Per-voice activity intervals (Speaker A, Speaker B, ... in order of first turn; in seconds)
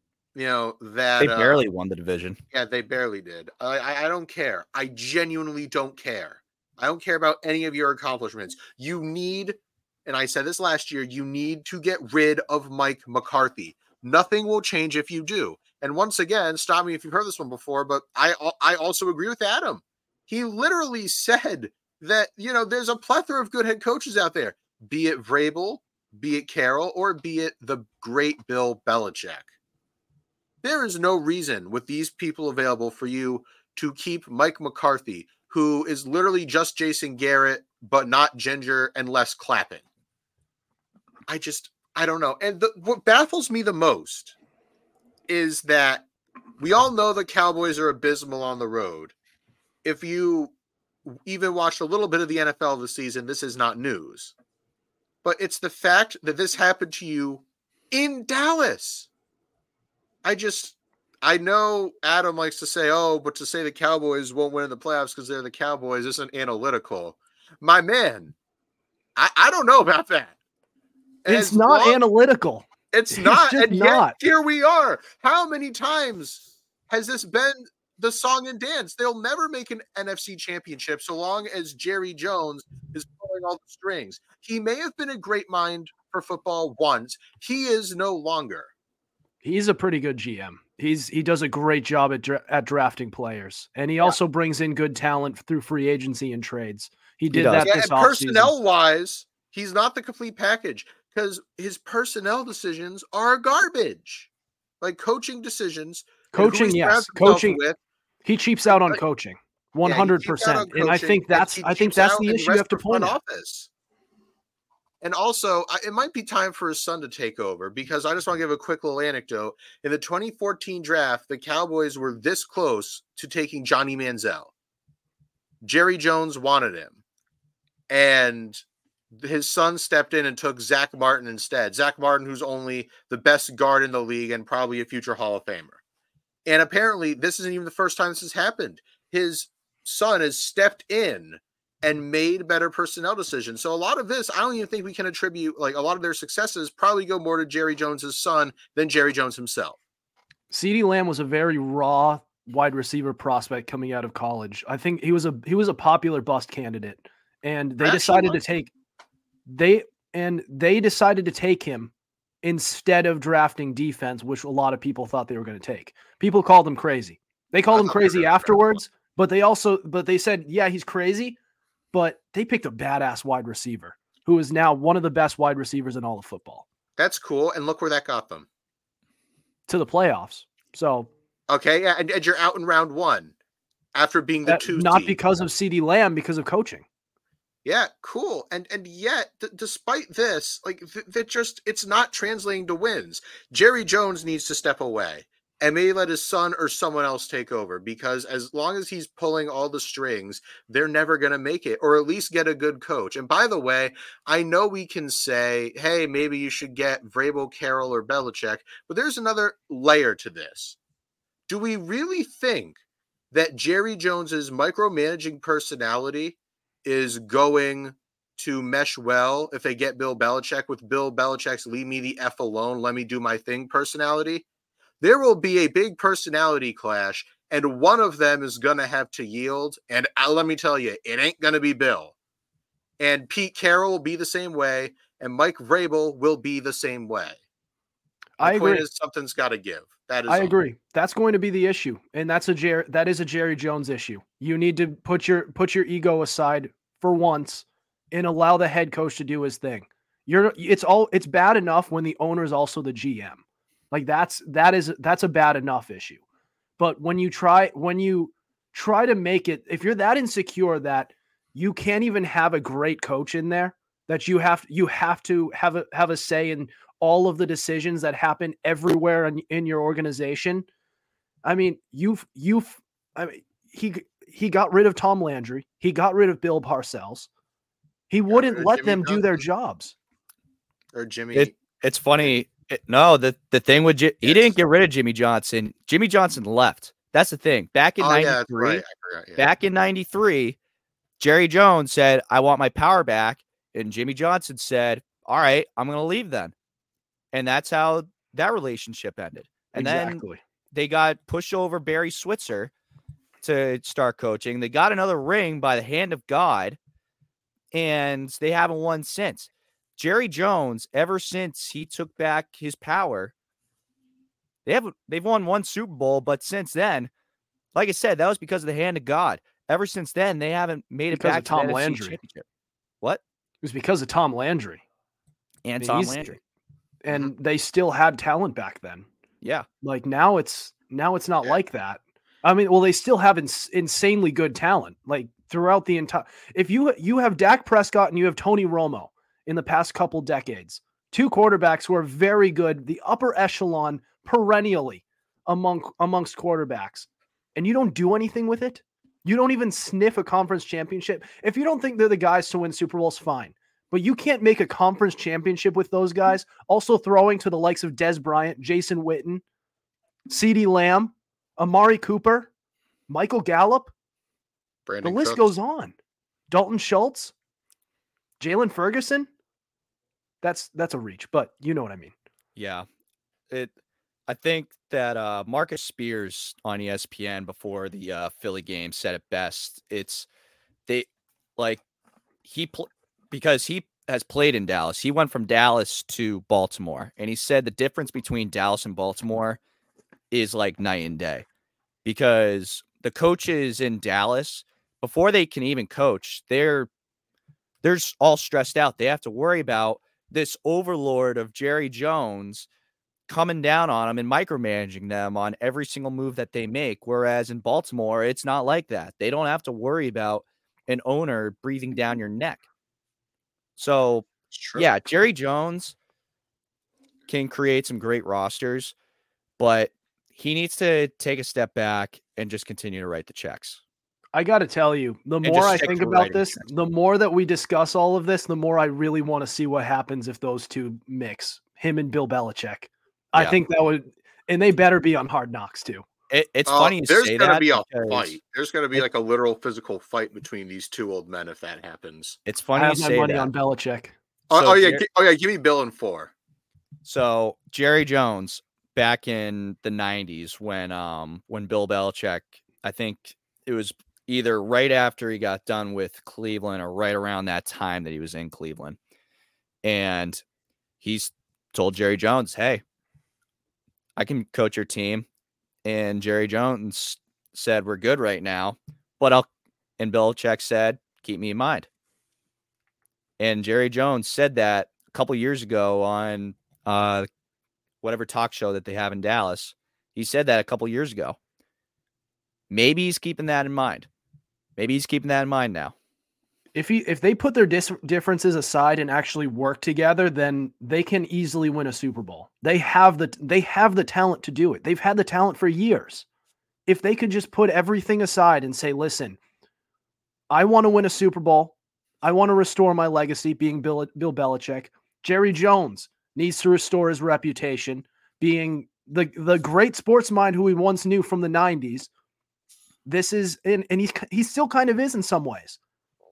Speaker A: 0.3-1.6, 2.5-29.5, 30.6-39.8, 41.3-44.3, 45.3-46.0, 46.6-49.1, 49.8-50.5, 51.1-54.3, 55.2-59.1, 60.2-68.3, 69.2-70.3, 71.2-72.0, 72.9-88.7, 97.6-104.3, 104.8-107.8, 109.8-113.7, 115.0-124.5, 125.6-127.0, 127.9-128.6, 129.1-135.8, 136.4-149.8, 157.8-158.4, 167.7-168.8, 177.0-178.5, 181.5-183.3, 183.9-185.2, 187.6-210.8, 211.5-212.8, 213.3-224.4, 225.0-232.1, 233.0-237.4, 238.4-240.5, 278.3-279.4, 280.9-281.5, 284.2-284.5, 288.0-289.5, 364.9-365.5, 414.5-414.9, 436.7-442.4, 444.5-446.3
Speaker B: 1.2-2.4, 97.3-97.7, 281.3-288.8, 289.4-290.6, 291.2-296.5, 297.3-302.7, 303.4-306.8, 307.7-313.3, 314.6-317.1, 317.7-322.4, 325.6-326.4, 372.6-372.9, 374.3-380.3, 380.9-381.8, 382.4-389.6, 390.3-391.4, 392.0-396.9, 397.8-402.7, 403.3-412.6, 413.8-415.9, 417.3-418.9, 419.6-423.8, 425.4-426.7, 436.3-438.4, 442.4-443.5, 444.5-445.0, 447.0-459.0, 459.8-460.4, 461.0-462.8, 464.2-465.2, 465.8-471.9, 473.4-477.3, 478.0-481.4, 482.7-484.1, 484.8-485.9
Speaker C: 71.2-74.1, 89.4-98.5, 106.3-107.6, 108.2-113.2, 150.5-158.7, 159.5-161.9, 162.4-171.4, 171.9-176.6, 179.7-181.1, 184.4-186.8, 238.4-238.8, 240.3-256.2, 256.8-270.6, 271.4-277.3, 278.1-279.9, 299.8-300.4, 321.1-322.2, 323.6-324.8, 325.8-326.4, 327.0-329.1, 329.8-359.4, 360.3-362.5, 363.1-363.9, 365.0-365.9, 366.5-367.3, 368.4-369.3, 370.4-372.1, 424.3-436.0, 442.8-444.1, 486.7-496.2, 496.9-499.4, 500.5-512.1, 513.0-515.8